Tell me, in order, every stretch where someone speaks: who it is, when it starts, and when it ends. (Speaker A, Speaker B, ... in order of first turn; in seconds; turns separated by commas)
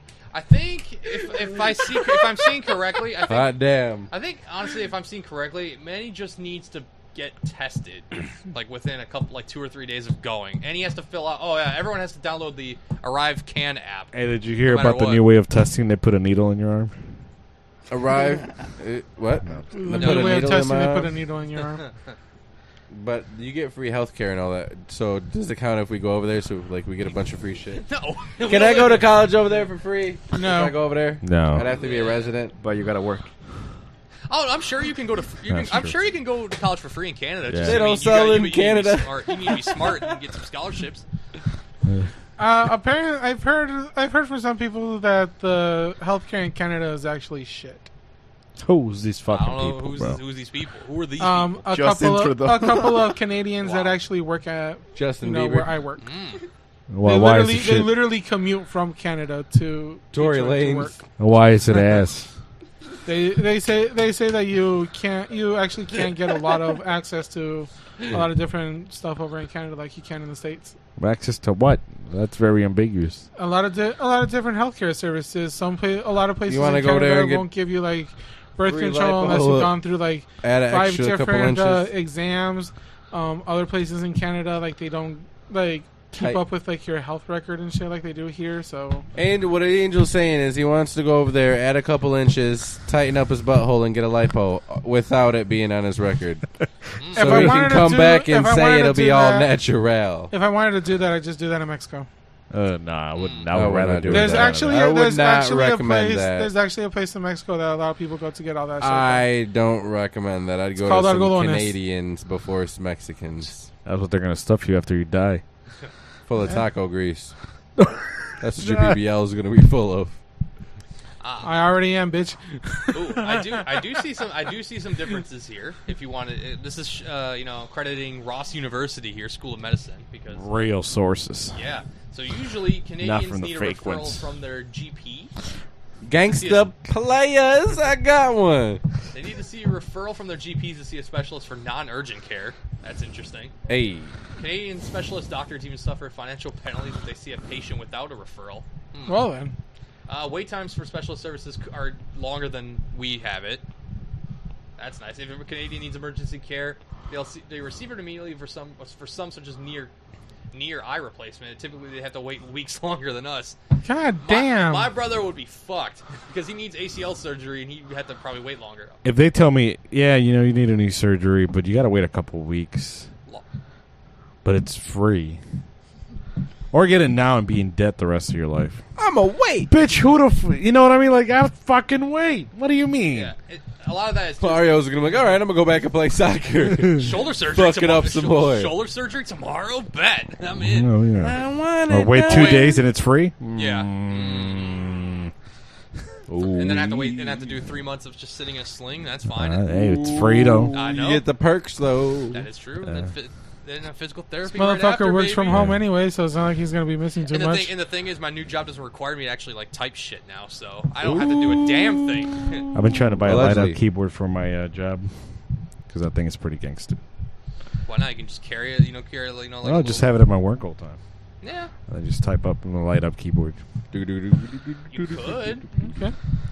Speaker A: 0.3-3.5, Speaker B: 3.3-4.1, Speaker A: 4.1-15.3, Speaker C: 14.1-16.9, Speaker B: 17.9-21.1, Speaker D: 19.7-21.8, Speaker A: 20.0-20.4, Speaker B: 22.9-27.9, Speaker A: 27.8-29.1, Speaker B: 28.4-32.5, Speaker D: 30.3-30.8, Speaker C: 31.2-31.7, Speaker A: 31.8-32.3, Speaker E: 32.6-33.3, Speaker A: 34.3-41.0, Speaker C: 35.5-36.0, Speaker C: 37.4-37.9, Speaker B: 37.6-40.1, Speaker C: 41.9-42.1, Speaker D: 42.4-47.9, Speaker C: 48.6-50.2, Speaker A: 49.3-51.6, Speaker D: 51.2-56.0, Speaker E: 51.7-53.1, Speaker A: 53.6-53.9, Speaker B: 54.9-55.7, Speaker A: 56.0-56.4, Speaker C: 56.9-58.0, Speaker D: 57.0-61.0, Speaker B: 60.1-61.0, Speaker C: 61.2-62.3, Speaker D: 63.0-70.8, Speaker C: 71.0-73.2, Speaker D: 73.3-89.0, Speaker B: 76.5-77.5, Speaker B: 78.6-79.8, Speaker B: 80.4-81.9, Speaker B: 86.1-86.4, Speaker B: 89.1-96.5, Speaker A: 97.0-97.5, Speaker D: 97.1-99.5, Speaker B: 97.1-100.3, Speaker D: 100.3-102.1, Speaker C: 102.5-104.8, Speaker A: 103.2-103.5, Speaker B: 103.5-106.5, Speaker D: 104.1-109.2, Speaker B: 108.8-113.5, Speaker D: 110.8-111.7, Speaker C: 113.8-115.4, Speaker B: 116.3-117.3, Speaker C: 117.8-119.0, Speaker B: 118.4-120.2, Speaker A: 121.2-121.5, Speaker D: 121.4-123.6, Speaker A: 122.9-130.7, Speaker C: 130.3-131.6, Speaker A: 131.5-135.3, Speaker C: 133.0-134.2, Speaker B: 136.0-138.8, Speaker A: 136.3-136.7, Speaker A: 139.1-143.5, Speaker B: 143.7-144.1, Speaker A: 144.4-149.2, Speaker D: 149.1-149.6, Speaker A: 150.1-153.6, Speaker A: 154.8-159.9, Speaker A: 160.5-163.6, Speaker D: 163.8-164.9, Speaker A: 164.2-169.0, Speaker C: 169.0-173.1, Speaker C: 174.4-175.4, Speaker C: 176.7-178.8, Speaker B: 179.0-179.7, Speaker C: 179.7-183.3, Speaker A: 183.1-184.8, Speaker B: 184.4-188.8, Speaker A: 187.0-190.9, Speaker C: 190.6-195.3, Speaker B: 191.2-192.8, Speaker A: 192.2-192.8, Speaker A: 193.5-194.9, Speaker B: 196.3-197.0, Speaker C: 196.3-197.4, Speaker A: 196.5-199.6, Speaker C: 199.3-200.7, Speaker B: 199.7-202.4, Speaker A: 200.7-201.2, Speaker A: 202.3-205.6, Speaker C: 202.8-203.1, Speaker D: 204.4-207.7, Speaker C: 205.5-205.8, Speaker A: 207.3-212.6, Speaker B: 211.0-213.8, Speaker C: 212.7-215.1, Speaker C: 215.9-217.0, Speaker A: 217.8-220.1, Speaker C: 219.6-221.0, Speaker A: 221.4-221.7, Speaker C: 221.9-223.6, Speaker B: 223.9-225.6, Speaker A: 224.9-225.6, Speaker D: 225.8-226.1